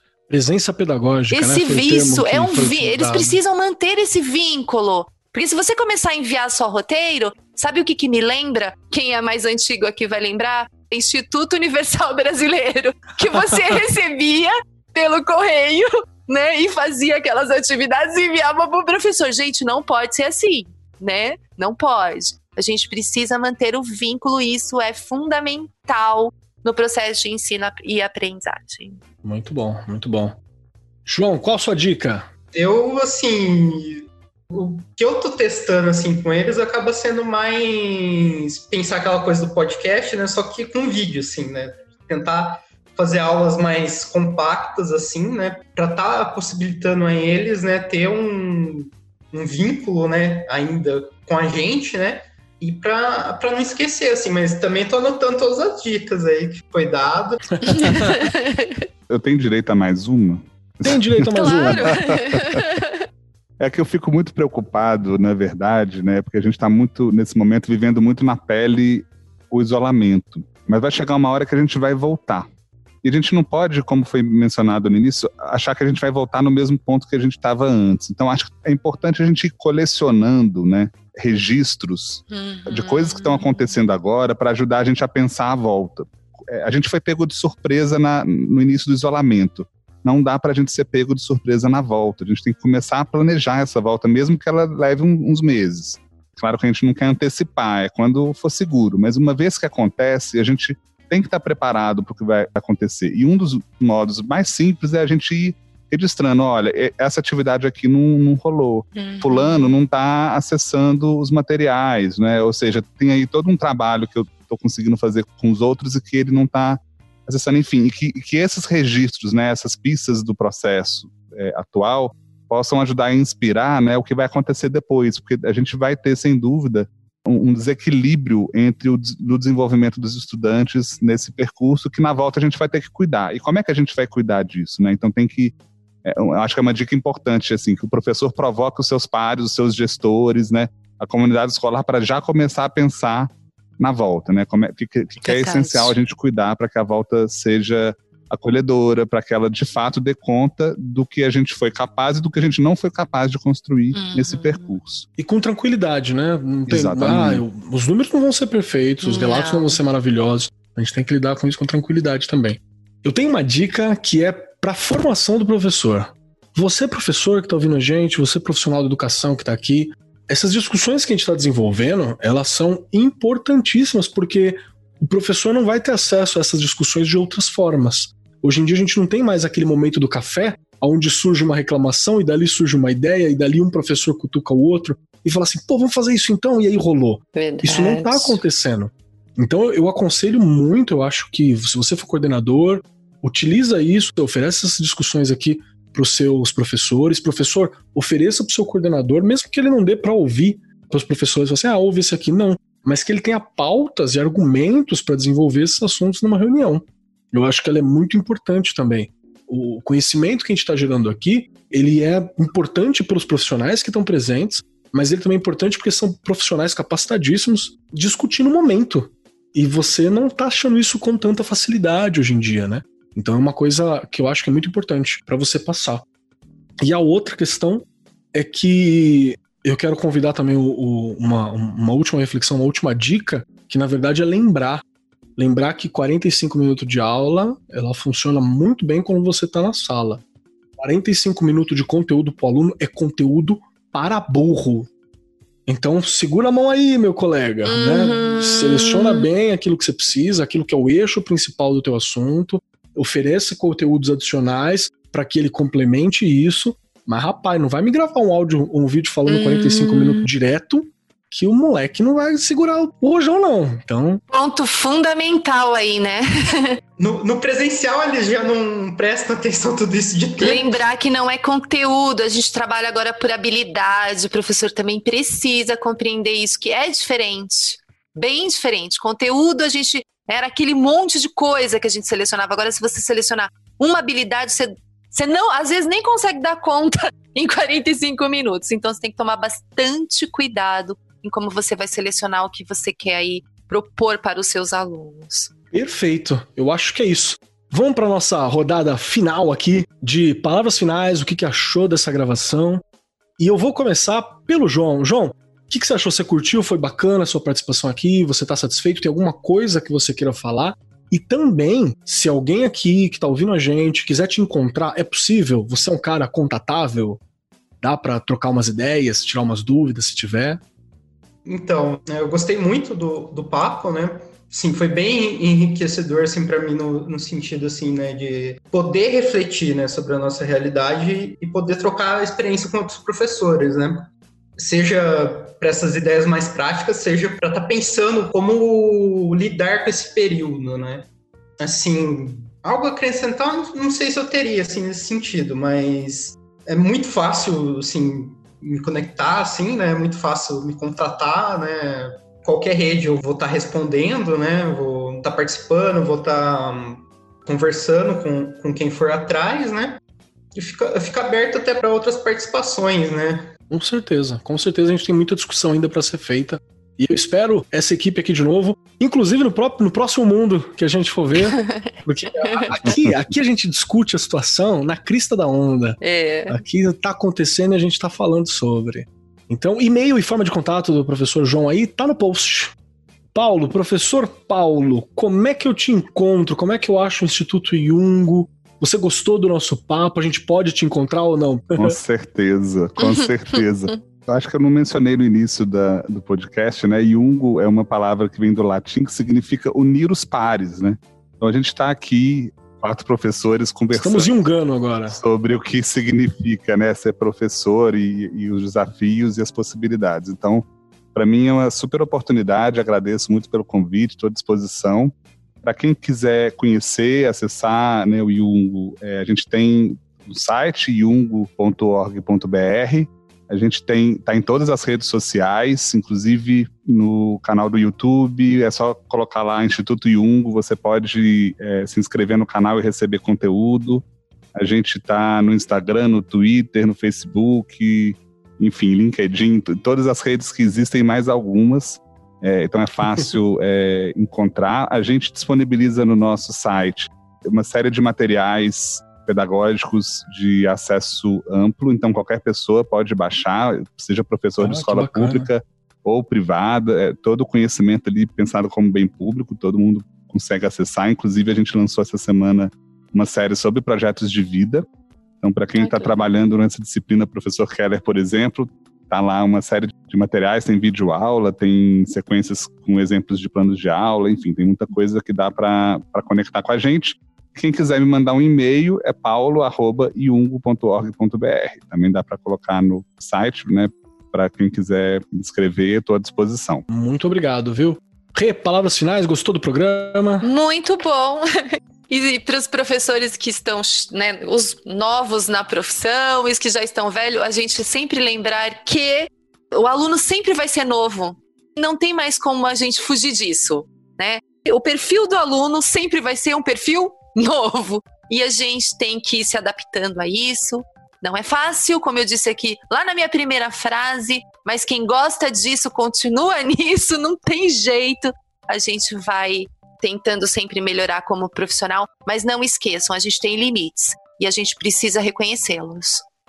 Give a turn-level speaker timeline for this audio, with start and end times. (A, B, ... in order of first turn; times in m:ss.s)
0:00.3-0:03.4 A
0:01.3-0:29.0 B
0:13.4-0:13.7 A
0:29.2-0:30.4 A
0:31.1-0:32.3 A
0:32.5-0:57.6 C
0:57.6-0:58.2 A
0:57.7-0:58.8 B
0:59.1-1:02.6 D
1:00.8-1:02.0 A
1:01.3-1:03.0 B
1:03.6-1:12.5 D
1:13.0-2:35.1 D
1:22.3-1:23.7 B
1:49.0-1:49.7 B
2:25.2-2:25.9 B
2:33.9-2:34.7 B
2:35.2-3:46.0 A
2:36.7-2:37.4 D
2:39.0-2:39.8 B
3:07.4-3:08.4 B
3:46.8-3:54.8 A
3:55.4-4:00.2 A
4:00.8-4:04.9 A
4:05.7-4:24.2 A
4:07.7-4:09.2 B
4:19.3-4:20.3 B
4:24.3-4:26.7 B
4:27.0-4:30.7 C
4:30.4-4:55.5 B
4:55.7-5:02.8 A
5:03.4-5:17.2 A
5:17.8-5:20.6 A
5:21.5-5:41.1 C
5:41.6-6:00.0 C
6:00.6-6:03.5 C
6:03.7-6:22.8 A
6:11.4-6:12.7 B
6:12.8-6:13.1 D
6:16.0-6:16.6 B
6:23.3-6:32.0 A
6:31.8-6:44.3 D
6:33.0-6:34.0 B
6:43.9-6:45.2 A
6:45.1-7:44.8 D
7:34.6-7:35.5 A
7:45.4-8:06.8 D
7:45.8-7:46.3 B
8:06.9-8:10.4 A
8:10.4-8:11.4 B
8:12.1-8:46.2 B